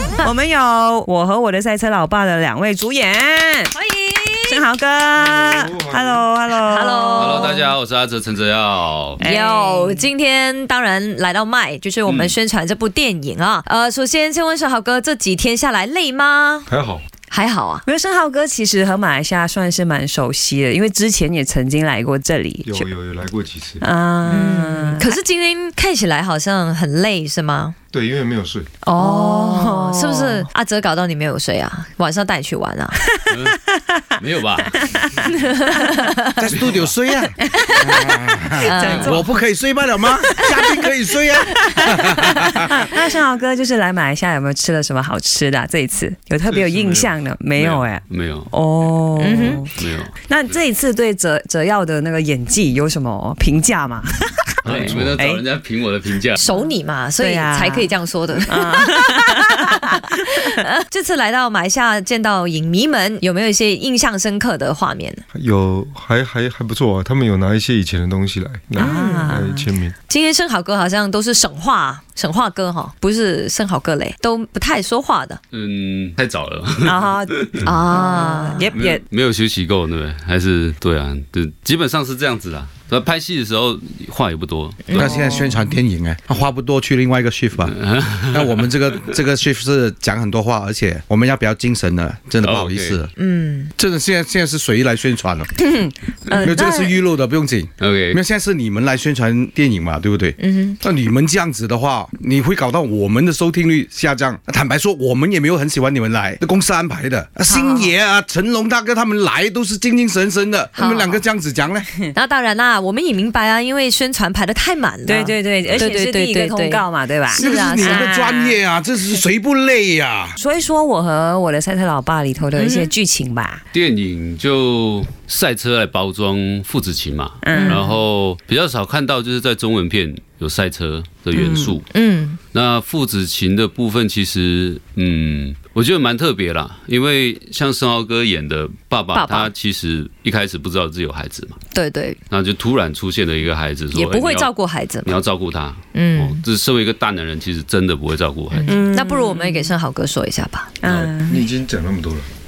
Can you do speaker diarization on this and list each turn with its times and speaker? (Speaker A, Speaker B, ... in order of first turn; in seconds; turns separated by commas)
Speaker A: 0.2-3.7, Speaker B: 3.7-4.6, Speaker A: 4.5-7.4, Speaker C: 5.2-6.2, Speaker B: 6.5-7.7, Speaker D: 7.1-9.2, Speaker A: 9.2-10.1, Speaker B: 9.2-16.7, Speaker D: 12.1-12.3, Speaker C: 16.7-17.0, Speaker B: 17.3-17.8, Speaker A: 17.8-22.9, Speaker C: 22.6-23.8, Speaker A: 23.8-25.1, Speaker B: 24.3-27.8, Speaker C: 27.9-28.7, Speaker B: 28.8-33.0, Speaker A: 29.0-30.5, Speaker D: 33.3-33.6, Speaker D: 34.2-35.0, Speaker B: 35.3-36.5, Speaker E: 36.4-42.7, Speaker D: 36.5-36.9, Speaker A: 38.5-39.4, Speaker B: 38.6-39.2, Speaker A: 40.3-40.8, Speaker A: 42.0-55.4, Speaker C: 46.4-47.2, Speaker D: 47.5-48.5, Speaker B: 49.2-49.6, Speaker D: 49.8-50.6, Speaker D: 54.6-56.4, Speaker C: 54.7-55.1, Speaker B: 56.4-65.2, Speaker A: 57.2-57.9, Speaker A: 58.5-59.5, Speaker C: 65.3-69.9, Speaker A: 68.8-69.7, Speaker B: 68.8-69.3, Speaker B: 70.1-75.4, Speaker D: 75.5-77.7, Speaker A: 76.8-79.0, Speaker B: 77.6-78.7, Speaker D: 78.6-85.0, Speaker B: 84.8-85.4, Speaker E: 84.9-93.1, Speaker A: 85.0-85.5, Speaker D: 87.6-88.5, Speaker D: 92.4-93.0, Speaker B: 93.2-93.7, Speaker E: 93.8-95.5, Speaker A: 95.6-97.0, Speaker E: 96.3-111.9, Speaker D: 97.8-98.2, Speaker B: 100.4-100.8, Speaker B: 107.5-107.9, Speaker B: 110.7-111.2, Speaker B: 112.1-118.5, Speaker A: 115.0-118.4, Speaker E: 117.3-120.4, Speaker A: 120.4-123.6, Speaker B: 122.5-122.9, Speaker D: 123.7-131.9, Speaker A: 127.4-127.8, Speaker B: 127.5-127.9, Speaker A: 131.3-131.8, Speaker B: 131.9-132.4, Speaker D: 132.5-141.6, Speaker B: 139.1-139.5, Speaker B: 141.7-142.2, Speaker D: 142.3-148.8, Speaker B: 143.9-145.2, Speaker B: 145.9-146.4, Speaker B: 148.5-150.7, Speaker A: 148.7-149.7, Speaker A: 150.8-151.4, Speaker D: 150.8-151.1, Speaker C: 151.2-152.3